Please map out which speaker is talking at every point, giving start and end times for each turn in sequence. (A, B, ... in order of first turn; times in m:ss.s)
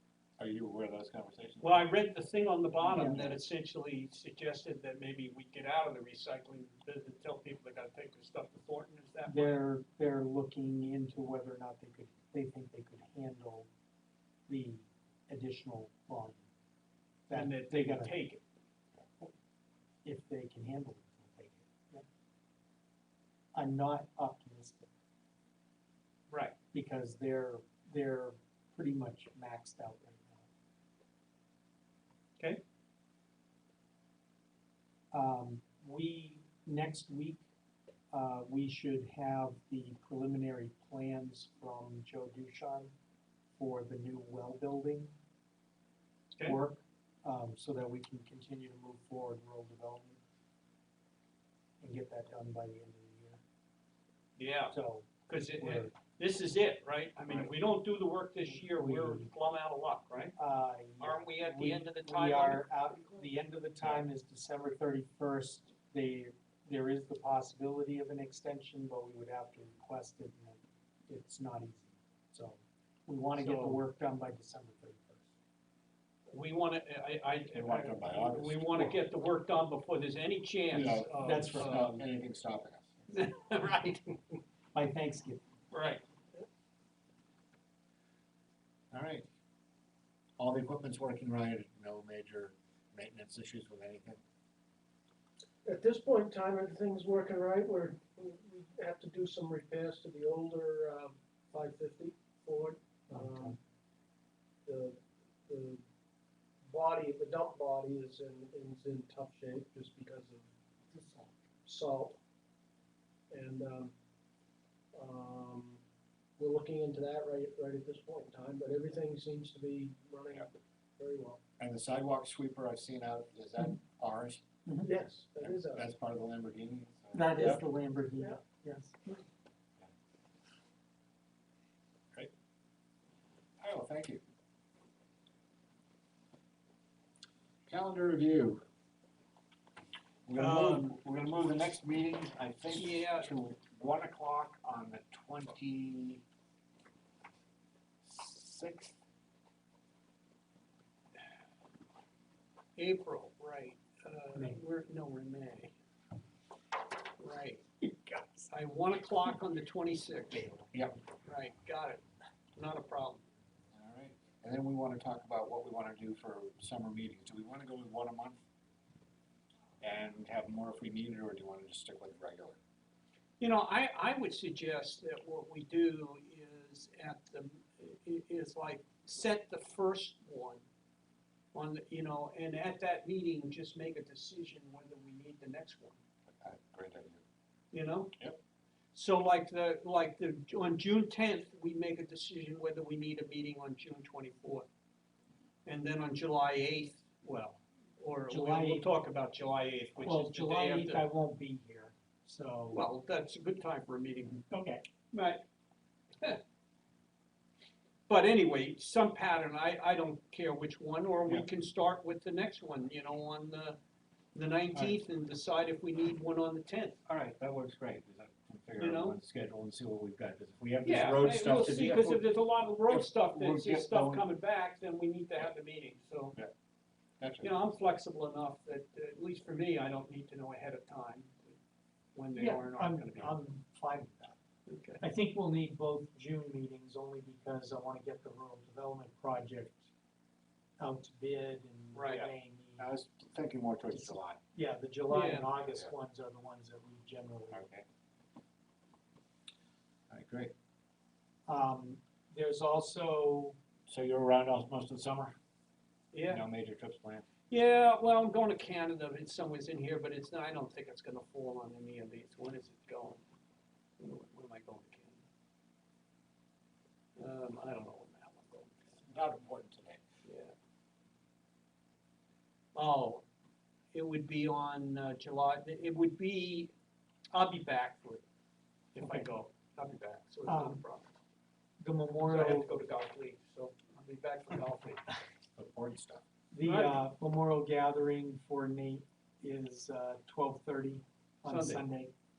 0:00.4-0:01.9 A
0:01.6-0:09.6 B
0:02.8-0:03.4 A
0:02.9-0:03.3 C
0:09.3-0:13.7 C
0:14.5-0:16.4 C
0:17.3-0:18.2 C
0:17.3-0:18.4 B
0:20.0-0:22.1 C
0:23.5-0:24.9 C
0:26.3-0:26.6 B
0:26.7-0:30.4 C
0:35.1-0:37.4 C
0:38.1-0:42.9 C
0:43.6-0:45.1 C
0:46.4-0:50.2 C
0:51.8-0:53.4 C
0:54.4-0:54.8 B
0:54.7-0:55.9 C
0:55.3-1:00.4 B
0:58.7-0:59.3 C
1:00.4-1:15.3 C
1:01.0-1:02.7 B
1:13.4-1:13.8 B
1:16.3-1:21.9 B
1:17.5-1:19.0 A
1:20.7-1:22.9 A
1:21.2-1:22.0 C
1:23.1-1:24.1 B
1:24.7-1:25.4 C
1:25.7-1:26.0 B
1:28.9-1:29.3 A
1:30.4-1:34.2 A
1:35.6-1:43.6 D
1:43.1-1:43.6 C
1:44.6-1:45.8 D
1:46.7-1:50.5 D
1:50.9-1:51.3 C
1:51.7-1:52.2 D
1:53.3-1:53.9 D
1:54.9-1:55.8 D
1:56.4-2:01.4 D
2:01.6-2:04.4 A
2:04.8-2:05.9 D
2:05.4-2:07.6 A
2:07.1-2:09.2 C
2:13.6-2:14.2 A
2:17.7-2:18.6 A
2:20.3-2:26.2 A
2:20.4-2:20.8 B
2:22.7-2:23.3 B
2:28.0-2:29.0 A
2:32.8-2:35.7 B
2:37.2-2:37.6 B
2:38.1-2:38.4 C
2:38.5-2:40.6 B
2:40.7-2:41.0 A
2:41.2-2:42.0 B
2:42.6-2:43.2 B
2:43.7-2:48.4 A
2:49.8-2:52.6 A
2:53.4-3:00.6 B
3:01.5-3:06.0 B
3:06.4-3:07.2 A
3:07.7-3:08.2 B
3:08.9-3:14.7 B
3:15.6-3:21.0 B
3:18.3-3:18.8 C
3:20.0-3:22.8 C
3:22.7-3:24.5 B
3:24.5-3:24.8 C
3:25.1-3:25.4 B
3:28.1-3:33.8 B
3:34.3-3:37.0 B
3:37.1-3:42.3 A
3:38.8-3:39.2 B
3:40.8-3:46.4 B
3:42.9-3:44.2 A
3:47.2-3:47.5 A
3:47.4-3:51.5 B
3:52.2-3:53.4 B
3:52.4-3:54.4 C
3:54.7-3:55.0 B
3:55.0-3:59.9 C
4:00.8-4:02.9 C
4:01.9-4:02.3 B
4:02.8-4:04.4 A
4:03.9-4:07.6 C
4:05.1-4:05.5 B
4:07.5-4:07.9 A
4:10.1-4:10.5 A
4:11.5-4:13.6 C
4:13.9-4:15.4 A
4:16.1-4:16.4 B
4:16.3-4:17.3 A
4:17.5-4:23.2 B
4:24.0-4:25.2 B
4:27.2-4:29.0 B
4:29.0-4:30.0 A
4:30.2-4:30.5 B
4:32.8-4:33.2 B
4:33.9-4:36.7 B
4:37.3-4:38.2 B
4:38.9-4:41.1 B
4:39.0-4:39.2 C
4:40.5-4:40.8 C
4:41.8-4:42.7 C
4:42.2-4:45.0 B
4:45.6-4:46.2 A
4:46.5-4:52.1 C
4:46.6-4:47.0 B
4:51.5-4:51.9 B